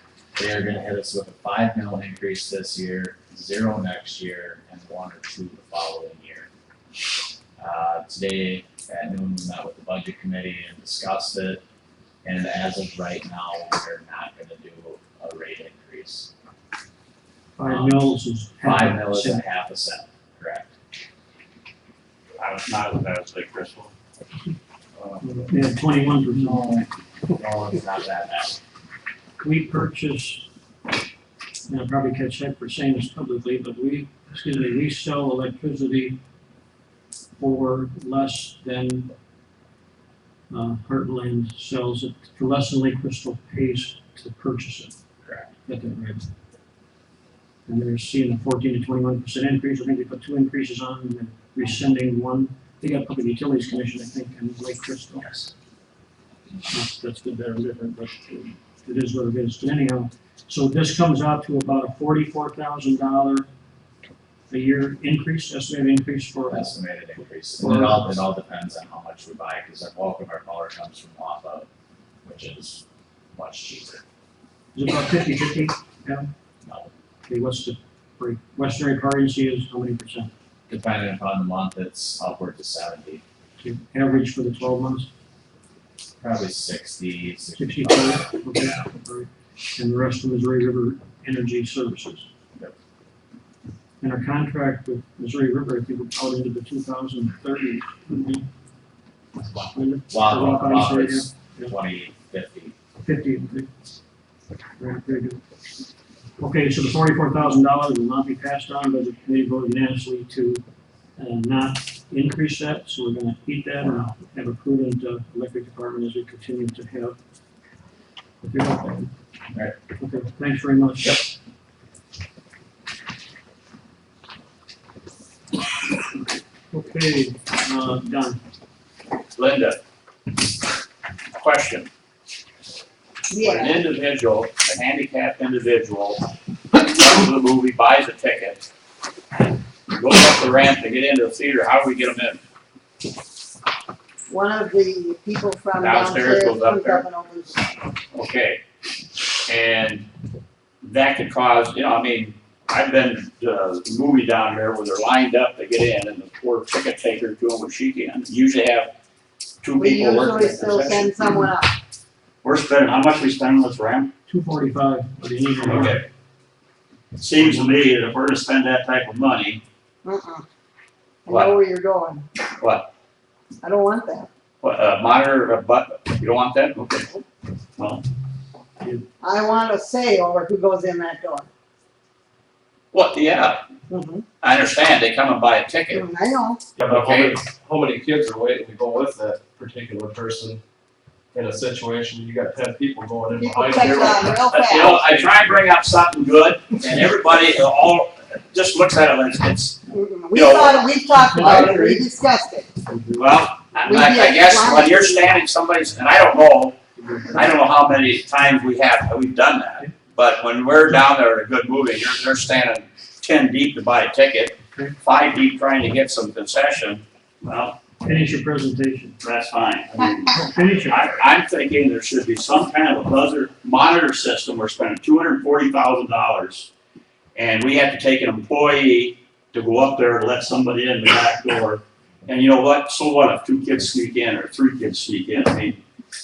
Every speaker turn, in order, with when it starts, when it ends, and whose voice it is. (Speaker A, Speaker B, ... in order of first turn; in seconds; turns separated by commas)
Speaker A: 0.4-6.5, Speaker A: 7.6-11.6, Speaker A: 12.2-16.3, Speaker B: 17.6-19.4, Speaker A: 17.6-18.0, Speaker A: 18.6-20.7, Speaker C: 22.4-23.9, Speaker C: 24.9-25.2, Speaker B: 25.2-26.8, Speaker A: 26.3-28.6, Speaker B: 29.4-30.5, Speaker B: 31.7-36.2, Speaker B: 37.4-39.1, Speaker B: 40.5-45.0, Speaker B: 45.7-46.3, Speaker B: 47.7-55.3, Speaker A: 55.2-55.5, Speaker B: 56.7-63.5, Speaker B: 64.5-66.8, Speaker A: 66.5-71.7, Speaker B: 67.6-68.2, Speaker A: 72.2-74.0, Speaker B: 74.8-76.3, Speaker A: 76.6-76.9, Speaker B: 77.2-80.3, Speaker A: 80.7-83.2, Speaker B: 83.6-85.1, Speaker A: 86.2-88.8, Speaker B: 87.5-92.3, Speaker B: 94.0-98.5, Speaker B: 99.7-101.8, Speaker A: 100.1-102.8, Speaker B: 103.0-103.7, Speaker B: 104.8-105.4, Speaker B: 106.4-110.6, Speaker B: 111.2-117.2, Speaker B: 118.4-119.1, Speaker B: 120.0-121.2, Speaker B: 126.7-128.4, Speaker C: 129.3-129.8, Speaker C: 131.3-131.9, Speaker D: 133.3-133.9, Speaker C: 133.4-138.6, Speaker C: 139.9-142.4, Speaker D: 144.3-147.6, Speaker C: 145.8-147.0, Speaker C: 148.1-148.6, Speaker C: 149.5-150.1, Speaker C: 150.8-158.9, Speaker C: 159.6-161.4, Speaker D: 159.8-161.7, Speaker C: 162.4-164.1, Speaker B: 164.3-166.0, Speaker C: 165.6-166.0, Speaker C: 167.2-169.6, Speaker D: 170.0-170.4, Speaker D: 171.2-172.2, Speaker C: 171.3-171.5, Speaker C: 172.6-172.9, Speaker D: 173.6-174.3, Speaker C: 174.6-177.2, Speaker C: 177.8-178.0, Speaker D: 179.2-181.5, Speaker C: 182.9-183.6, Speaker D: 183.9-184.2, Speaker C: 184.4-186.0, Speaker D: 185.9-186.6, Speaker E: 186.8-190.6, Speaker C: 186.8-187.4, Speaker E: 191.3-194.4, Speaker D: 193.3-195.0, Speaker C: 194.5-199.8, Speaker D: 199.9-202.7, Speaker C: 200.3-200.9, Speaker B: 201.1-202.0, Speaker E: 201.4-201.7, Speaker C: 203.2-206.8, Speaker D: 203.8-205.4, Speaker C: 207.3-217.8, Speaker B: 218.0-219.2, Speaker C: 219.2-226.7, Speaker B: 220.3-221.2, Speaker C: 227.3-235.8